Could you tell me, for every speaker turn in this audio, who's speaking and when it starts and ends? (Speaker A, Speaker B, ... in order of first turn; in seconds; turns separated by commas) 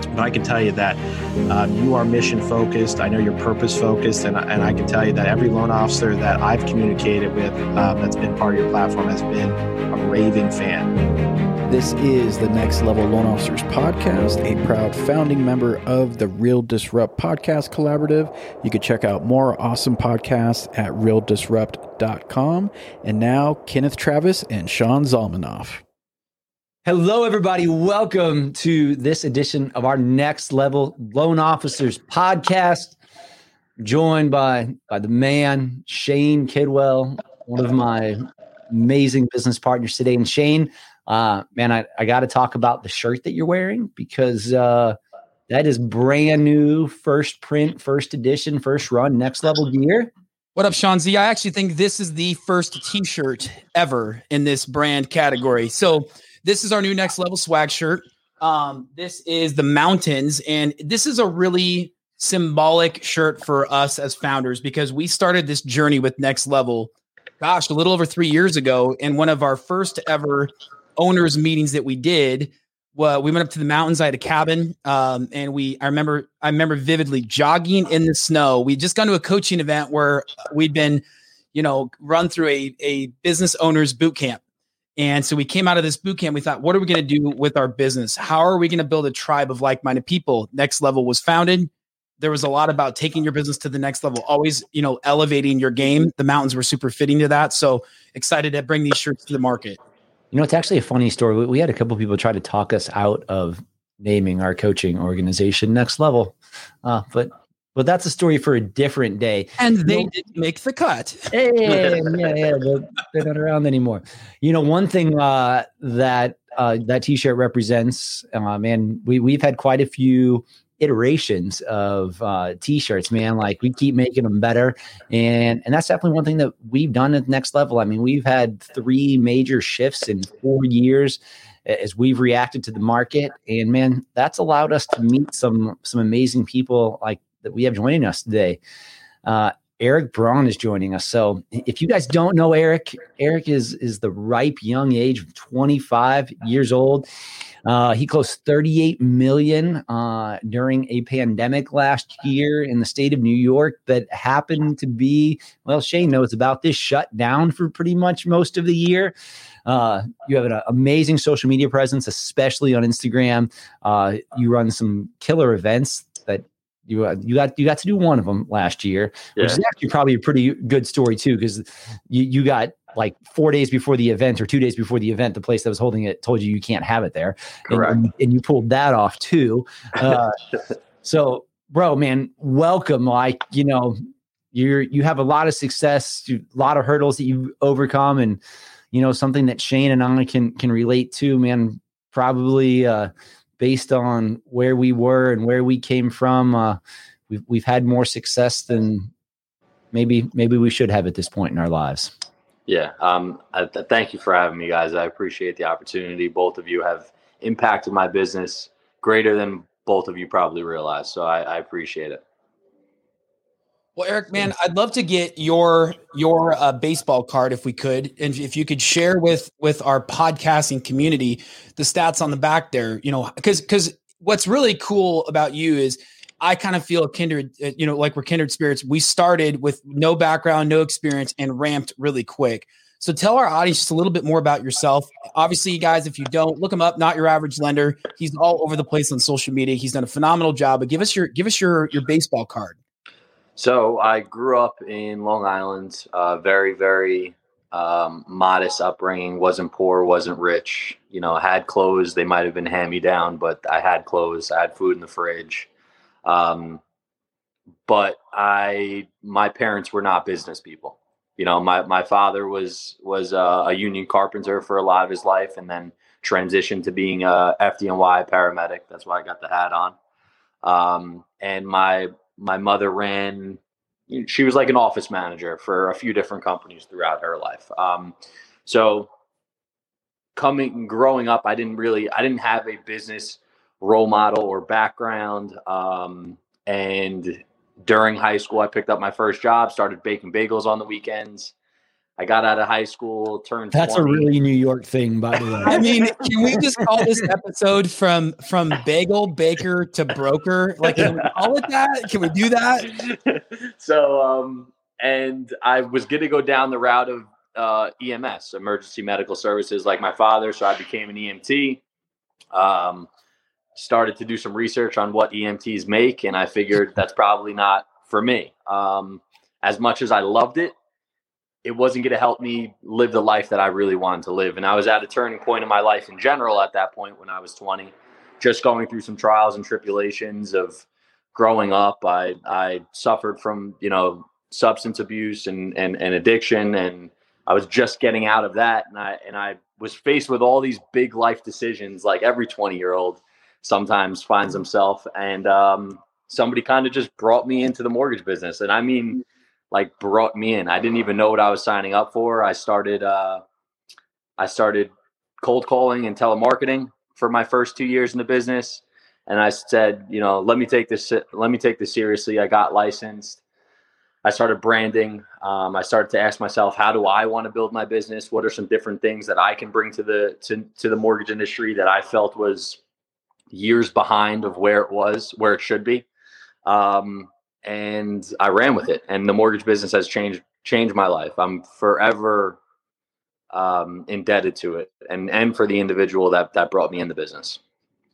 Speaker A: 0.1-10.9, Speaker B: 11.7-25.8, Speaker C: 26.9-33.0, Speaker C: 33.8-45.0, Speaker C: 45.5-50.1, Speaker D: 50.6-81.0, Speaker D: 81.5-84.4, Speaker D: 85.0-99.8, Speaker C: 100.3-110.1, Speaker D: 109.6-112.0, Speaker C: 111.3-138.6, Speaker C: 139.2-147.1, Speaker C: 147.7-159.1, Speaker C: 159.7-180.4, Speaker E: 169.4-169.6, Speaker E: 177.7-178.0, Speaker C: 181.0-184.0, Speaker C: 184.5-188.4, Speaker C: 188.9-199.1, Speaker C: 199.9-202.1, Speaker E: 202.7-212.2, Speaker D: 214.0-242.8, Speaker E: 243.6-255.7, Speaker E: 256.2-256.8, Speaker E: 257.9-270.0, Speaker E: 270.6-278.1, Speaker E: 278.7-279.1, Speaker E: 280.4-291.5, Speaker E: 292.2-294.3, Speaker C: 293.7-297.3, Speaker D: 295.7-302.9, Speaker C: 300.8-301.2, Speaker E: 303.0-311.8, Speaker E: 312.5-313.1, Speaker E: 313.8-320.7, Speaker E: 321.6-353.4, Speaker E: 354.4-363.4, Speaker E: 364.2-372.8, Speaker E: 373.5-376.1, Speaker E: 376.7-382.6, Speaker E: 383.5-387.6